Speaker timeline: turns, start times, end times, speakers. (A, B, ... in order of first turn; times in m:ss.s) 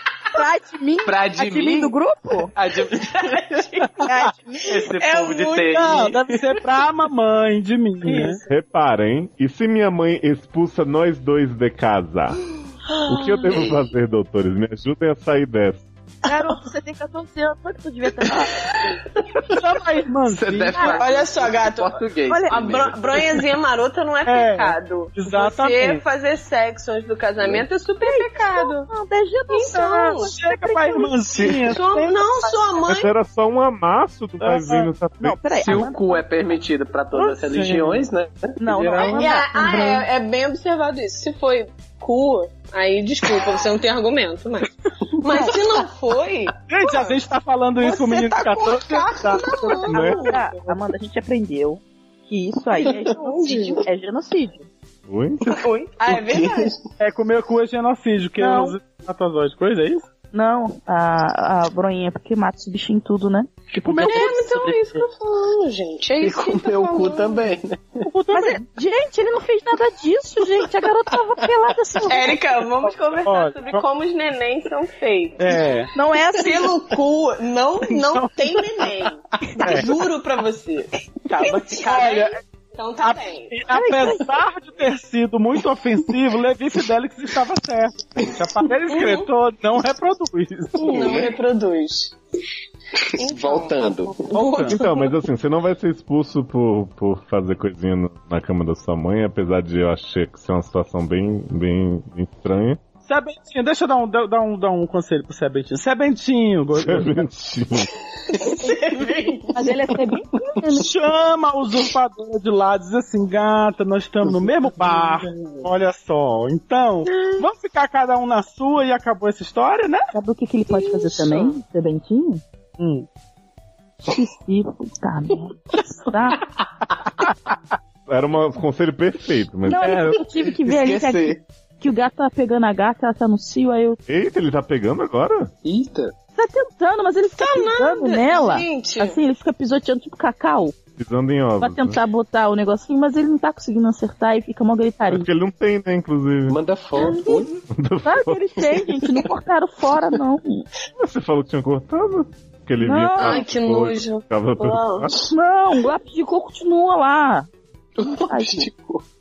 0:00.3-0:02.5 A
0:01.1-0:01.9 B
0:02.6-0:02.9 B
0:03.0-0:03.9 C
0:04.1-0:04.8 A
0:05.0-0:06.2 B
0:05.0-0:05.8 C
0:05.7-0:08.4 D
0:08.0-0:08.4 C
0:08.5-0:12.4 E
0:13.1-0:15.9 E
0:16.3-0:18.6 A
0:19.6-0:21.0 D
0:20.3-0:23.4 B
0:20.8-0:28.9 C
0:22.3-0:22.6 A
0:24.2-0:26.0 D
0:27.4-0:27.7 B
0:28.0-0:31.2 A
0:29.5-0:30.3 C
0:30.2-0:32.2 D
0:31.4-0:31.6 B
0:31.6-0:33.1 C
0:32.8-0:35.4 E
0:34.4-0:34.9 D
0:35.2-0:36.2 A
0:35.6-0:38.5 B
0:37.1-0:38.0 D
0:38.6-0:39.4 A
0:38.7-0:39.7 D
0:39.0-0:47.2 C
0:46.7-0:50.3 D
0:47.8-0:50.5 C
0:49.9-0:50.2 E
0:49.9-0:54.7 A
0:55.1-0:55.4 E
0:55.6-0:56.7 C
0:56.1-0:56.8 B
0:57.0-1:00.1 D
0:58.4-0:58.8 A
1:00.3-1:05.0 A
1:03.8-1:04.3 D
1:03.9-1:07.4 C
1:06.2-1:07.8 B
1:08.1-1:08.6 D
1:08.3-1:12.4 A
1:12.1-1:15.6 C
1:12.9-1:13.8 D
1:15.4-1:15.9 D
1:16.0-1:16.8 A
1:16.4-1:23.5 C
1:17.9-1:18.9 D
1:19.6-1:20.0 D
1:21.3-1:22.4 D
1:23.0-1:31.3 D
1:23.7-1:24.2 A
1:28.9-1:29.2 C
1:30.8-1:32.2 C
1:31.0-1:31.3 B
1:33.2-1:35.0 C
1:33.2-1:34.3 B
1:34.3-1:34.8 D
1:34.7-1:42.8 E
1:43.0-1:47.3 D
1:46.8-1:47.9 E
1:48.5-1:49.6 C
1:49.5-1:50.9 A
1:50.7-2:00.1 D
2:00.1-2:02.4 A
2:02.8-2:03.1 D
2:04.1-2:06.4 A
2:08.1-2:10.2 E
2:09.7-2:14.0 A
2:09.7-2:10.2 D
2:10.6-2:11.4 B
2:14.1-2:15.5 E
2:15.6-2:16.1 B
2:16.4-2:20.8 A
2:17.4-2:19.2 C
2:21.0-2:22.0 E
2:21.6-2:25.3 A
2:25.1-2:26.6 E
2:26.5-2:27.5 B
2:27.7-2:28.8 E
2:28.0-2:30.7 A
2:31.0-2:35.1 E
2:32.8-2:33.4 A
2:33.2-2:35.1 C
2:35.2-2:37.5 A
2:38.0-2:39.0 B
2:38.3-2:38.7 A